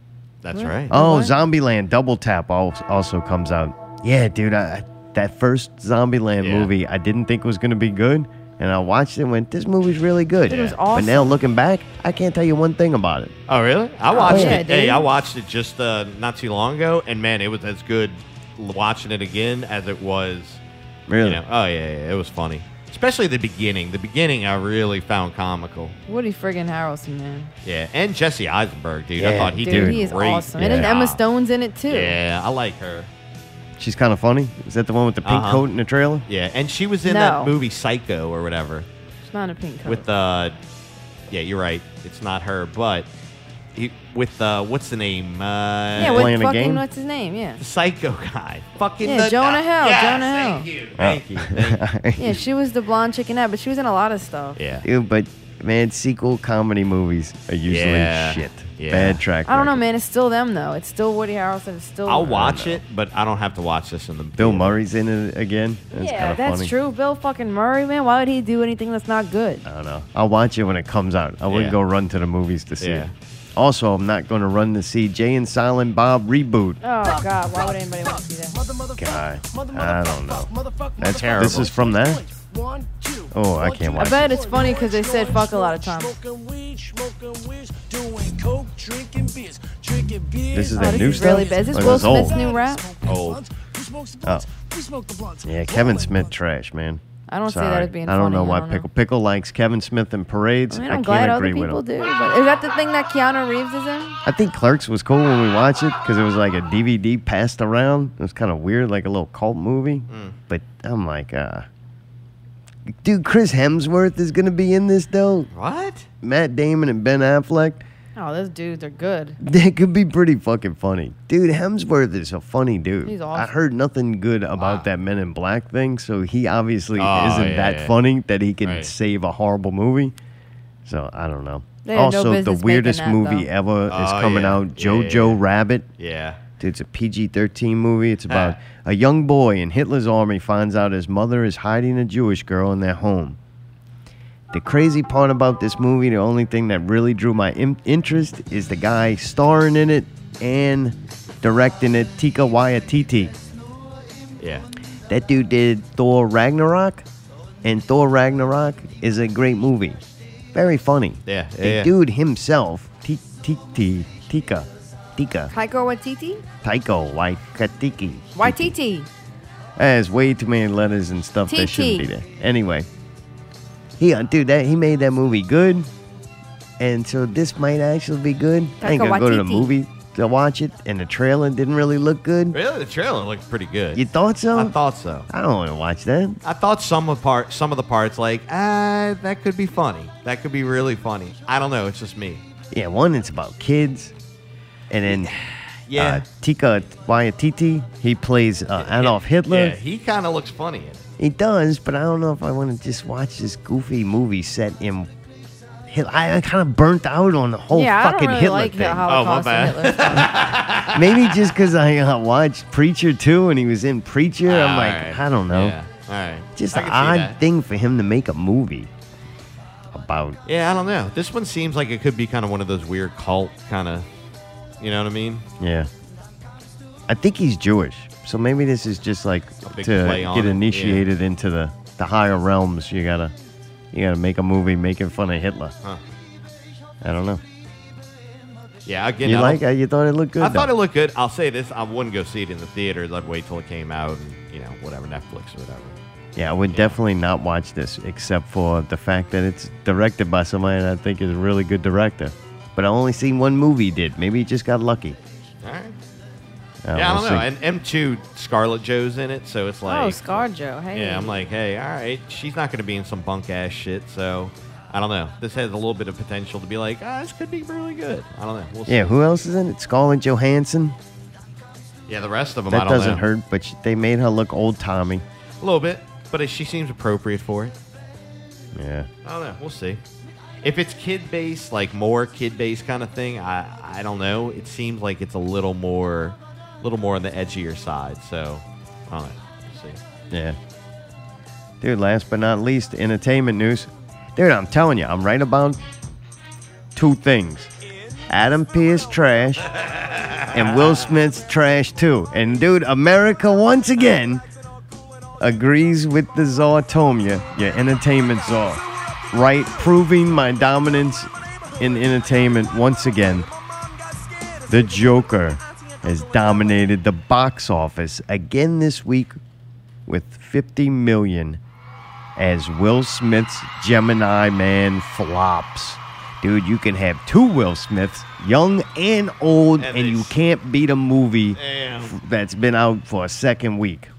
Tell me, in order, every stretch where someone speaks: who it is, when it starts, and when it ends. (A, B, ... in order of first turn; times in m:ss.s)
0:00.4-0:00.9 A
0:00.5-0:01.3 B
0:00.9-0:13.4 C
0:06.4-0:06.7 A
0:10.5-0:11.4 B
0:13.5-0:20.6 A
0:14.1-0:15.1 B
0:14.2-0:14.7 C
0:21.1-0:21.4 C
0:21.2-0:26.0 A
0:26.1-0:27.5 B
0:27.6-0:31.2 A
0:29.2-0:30.0 C
0:29.5-0:32.2 B
0:30.6-0:30.9 C
0:31.9-0:33.1 A
0:33.8-0:36.2 C
0:35.2-0:35.6 A
0:36.3-0:38.9 A
0:37.1-0:37.5 B
0:39.2-0:40.1 B
0:39.8-0:40.6 A
0:41.3-0:43.1 A
0:43.8-0:46.3 A
0:46.0-0:46.8 C
0:46.0-0:47.6 B
0:47.6-0:51.8 A
0:49.0-0:50.7 B
0:51.0-0:52.4 C
0:52.2-0:54.6 B
0:54.6-0:54.9 A
0:54.8-0:59.8 C
0:57.7-0:59.2 A
0:59.5-1:02.4 B
1:02.1-1:04.8 A
1:02.2-1:02.8 C
1:04.4-1:06.7 C
1:05.9-1:09.6 B
1:09.6-1:13.0 C
1:11.5-1:11.8 A
1:12.8-1:13.1 A
1:13.6-1:16.8 C
1:16.8-1:18.6 B
1:18.9-1:22.3 C
1:21.1-1:21.7 A
1:23.3-1:24.5 C
1:24.0-1:26.2 B
1:30.4-1:32.4 C
1:30.7-1:32.9 B
1:33.0-1:33.4 A
1:34.2-1:34.5 C
1:35.4-1:41.8 C
1:37.3-1:38.9 B
1:40.7-1:44.2 B
1:44.2-1:51.7 C
1:50.1-1:50.4 A
1:53.0-1:55.5 C
1:55.5-1:56.0 A
1:56.2-1:57.8 C
1:58.2-1:59.4 B
1:59.4-2:10.2 C
2:03.0-2:03.5 B
2:04.6-2:04.9 A
2:07.0-2:07.9 A
2:08.6-2:08.9 A
2:10.8-2:15.9 C
2:11.8-2:13.5 B
2:13.9-2:15.4 A
2:16.0-2:16.4 A
2:16.6-2:23.4 C
2:18.3-2:18.6 A
2:24.5-2:33.4 C
2:34.4-2:34.7 A
2:35.1-2:37.0 C
2:37.6-2:40.0 C
2:40.5-2:45.5 C
2:41.3-2:41.9 A
2:45.5-2:46.4 B
2:46.6-2:48.7 C
2:48.3-2:49.1 B
2:49.8-2:52.9 C
2:51.5-2:52.1 B
2:54.0-2:55.9 C
2:56.8-3:02.6 C
2:58.8-2:59.7 B
3:02.5-3:04.0 A
3:04.0-3:04.7 C
3:04.6-3:05.3 A
3:05.3-3:06.4 C
3:06.4-3:12.4 A
3:12.7-3:14.1 C
3:14.9-3:15.3 C
3:15.1-3:16.2 A
3:15.9-3:19.8 C
3:18.8-3:21.0 A
3:21.2-3:25.1 C
3:25.9-3:29.0 C
3:27.7-3:30.3 B
3:29.1-3:31.5 A
3:30.9-3:35.8 C
3:34.4-3:37.4 A
3:36.6-3:38.9 C
3:39.9-3:40.4 C
3:40.5-3:44.1 A
3:44.8-3:45.4 A
3:45.6-3:45.9 C
3:47.1-3:53.3 C
3:49.7-3:51.0 A
3:53.9-3:55.7 C
3:57.0-3:57.4 C
3:58.8-3:59.6 A
3:59.2-4:00.7 C
4:00.4-4:06.0 A
4:06.4-4:15.2 C
4:06.7-4:07.0 A
4:15.6-4:16.0 A
4:16.8-4:17.5 C
4:16.9-4:29.1 A
4:19.9-4:21.4 B
4:28.9-4:31.0 C
4:32.1-4:33.2 A
4:32.7-4:35.2 C
4:35.6-4:37.8 A
4:38.7-4:39.1 C
4:39.2-4:40.0 A
4:40.6-4:50.0 A
4:50.3-4:50.6 C
4:51.8-4:55.8 C
4:57.0-4:57.7 C
4:58.3-4:59.7 C
4:59.9-5:00.6 A
5:00.5-5:04.4 C
5:05.4-5:13.5 C
5:14.7-5:19.4 C
5:20.1-5:21.6 C
5:22.4-5:34.1 C
5:29.8-5:30.3 A
5:31.6-5:32.1 A